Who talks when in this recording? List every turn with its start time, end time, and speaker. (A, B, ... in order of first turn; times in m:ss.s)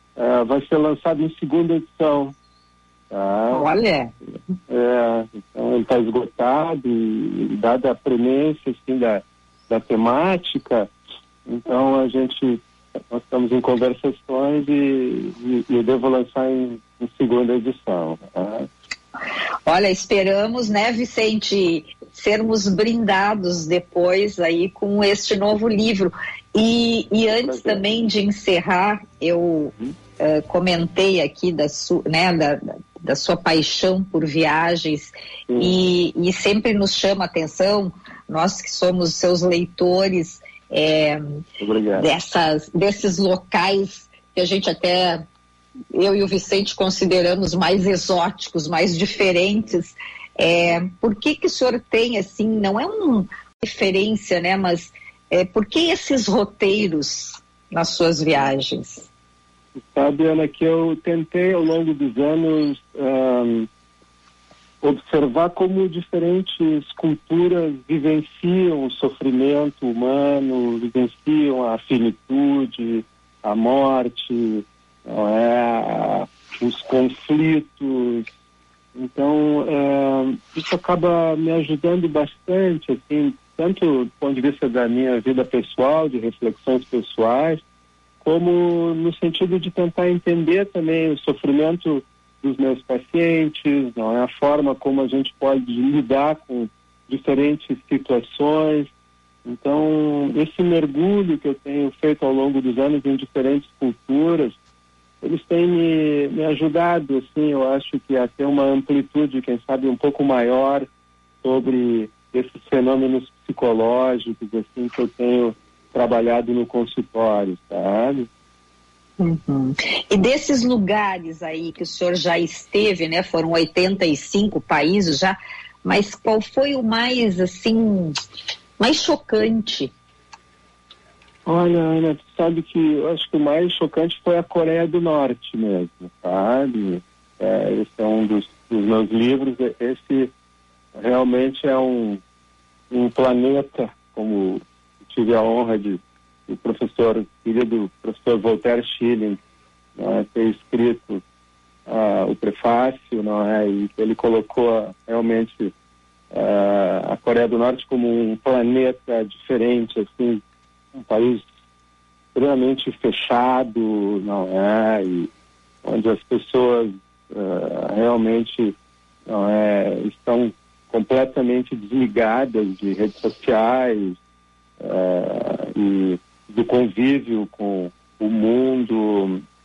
0:00.2-0:02.3 A
0:03.1-0:03.7 A
0:03.5-0:04.1 B
0:04.7-0:10.9 A
0:11.5-0:18.7 A
0:19.7-0:41.4 B
0:27.3-0:27.9 A
0:35.5-0:35.8 A
0:41.6-0:42.1 A
0:42.0-0:45.2 B
0:46.0-0:59.1 B
0:59.8-1:03.7 A
1:04.8-1:18.3 A
1:19.0-1:27.6 A
1:28.2-1:38.9 A
1:39.4-1:44.6 A
1:45.2-1:50.9 A
1:51.4-1:58.3 A
1:59.2-2:08.2 B
2:08.8-2:09.9 B
2:11.5-2:20.3 A
2:21.0-2:22.2 A
2:22.9-2:29.4 A
2:30.0-2:31.2 A
2:31.9-2:35.7 A
2:36.3-2:40.4 A
2:40.9-2:41.4 A
2:42.4-2:45.3 A
2:45.8-2:48.8 A
2:49.3-2:54.2 A
2:54.8-2:59.4 A